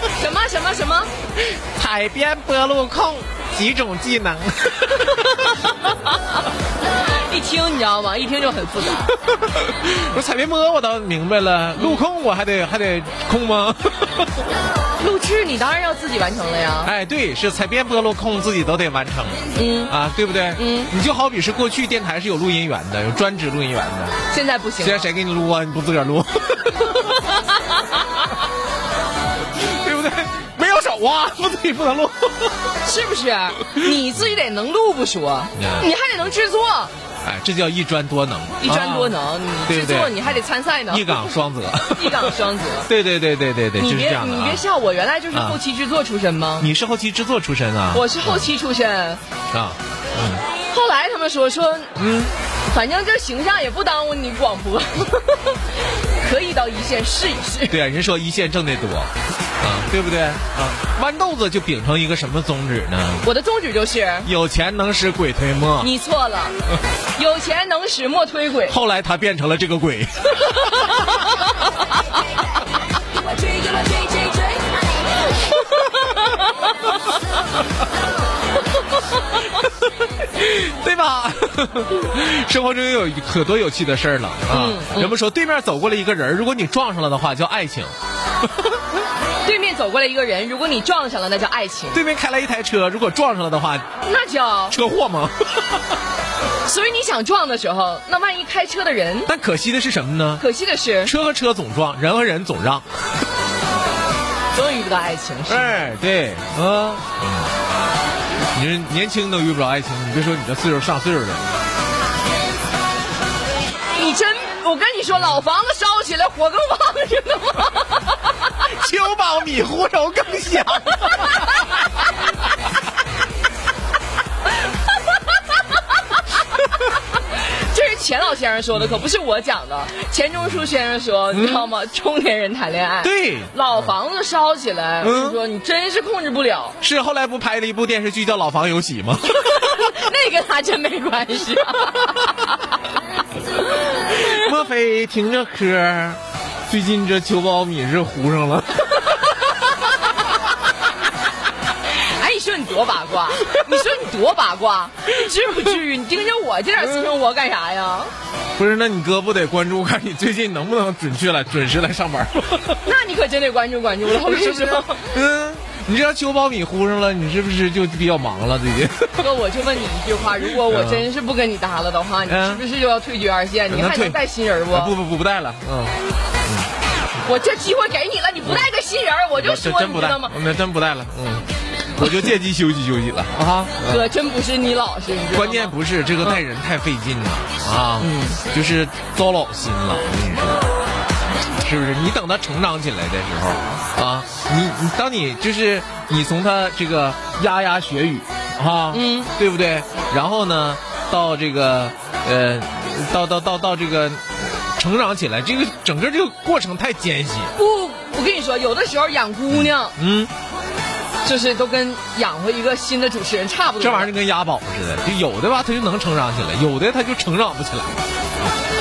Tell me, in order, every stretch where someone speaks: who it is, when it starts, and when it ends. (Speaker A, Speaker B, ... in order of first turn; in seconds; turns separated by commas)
Speaker A: 0.1-1.1, Speaker B: 1.4-5.6, Speaker A: 7.3-9.1, Speaker B: 9.3-14.3, Speaker A: 15.0-16.9, Speaker B: 16.8-24.2, Speaker A: 19.6-19.9, Speaker A: 20.6-20.9, Speaker A: 24.3-25.1, Speaker B: 24.8-27.1, Speaker B: 29.6-32.8, Speaker A: 32.8-36.9, Speaker B: 33.7-34.2, Speaker B: 35.5-35.9, Speaker B: 37.2-42.4, Speaker A: 38.6-42.9, Speaker B: 42.9-44.6, Speaker A: 43.8-46.7, Speaker B: 45.3-45.6, Speaker B: 46.6-48.5, Speaker A: 47.9-49.2, Speaker B: 49.5-50.4, Speaker A: 50.7-51.9, Speaker B: 52.0-52.3, Speaker A: 52.7-55.6, Speaker A: 56.2-57.8, Speaker B: 57.7-63.3, Speaker A: 63.2-64.3, Speaker B: 64.2-65.9, Speaker A: 65.8-66.6, Speaker A: 67.2-68.8, Speaker B: 68.7-71.2, Speaker B: 75.7-76.2, Speaker B: 79.5-87.9, Speaker A: 84.5-85.1, Speaker A: 89.4-92.0, Speaker B: 91.9-93.9, Speaker A: 94.0-94.8, Speaker B: 94.7-95.8, Speaker A: 96.6-99.3, Speaker B: 99.3-100.5, Speaker A: 100.4-101.1, Speaker B: 101.0-102.9, Speaker A: 104.5-105.8, Speaker B: 105.5-107.5, Speaker B: 108.5-111.5, Speaker A: 114.0-118.2, Speaker B: 118.6-121.5, Speaker A: 127.4-136.8, Speaker B: 131.3-131.7, Speaker B: 133.0-133.9, Speaker B: 135.0-135.4, Speaker B: 136.8-139.9, Speaker A: 139.5-142.3, Speaker B: 144.1-149.0, Speaker A: 151.9-158.1, Speaker B: 158.6-162.8, Speaker A: 162.8-165.1, Speaker B: 164.1-169.3, Speaker A: 169.2-174.9, Speaker B: 170.5-171.1, Speaker B: 172.3-172.6, Speaker B: 173.7-176.7, Speaker A: 177.2-180.3, Speaker B: 179.4-184.1, Speaker A: 183.8-185.7, Speaker B: 185.3-190.7, Speaker A: 188.0-188.4, Speaker B: 191.6-207.5, Speaker A: 198.9-199.3, Speaker A: 207.6-209.9, Speaker B: 209.5-210.3, Speaker A: 211.2-214.1, Speaker B: 213.8-218.0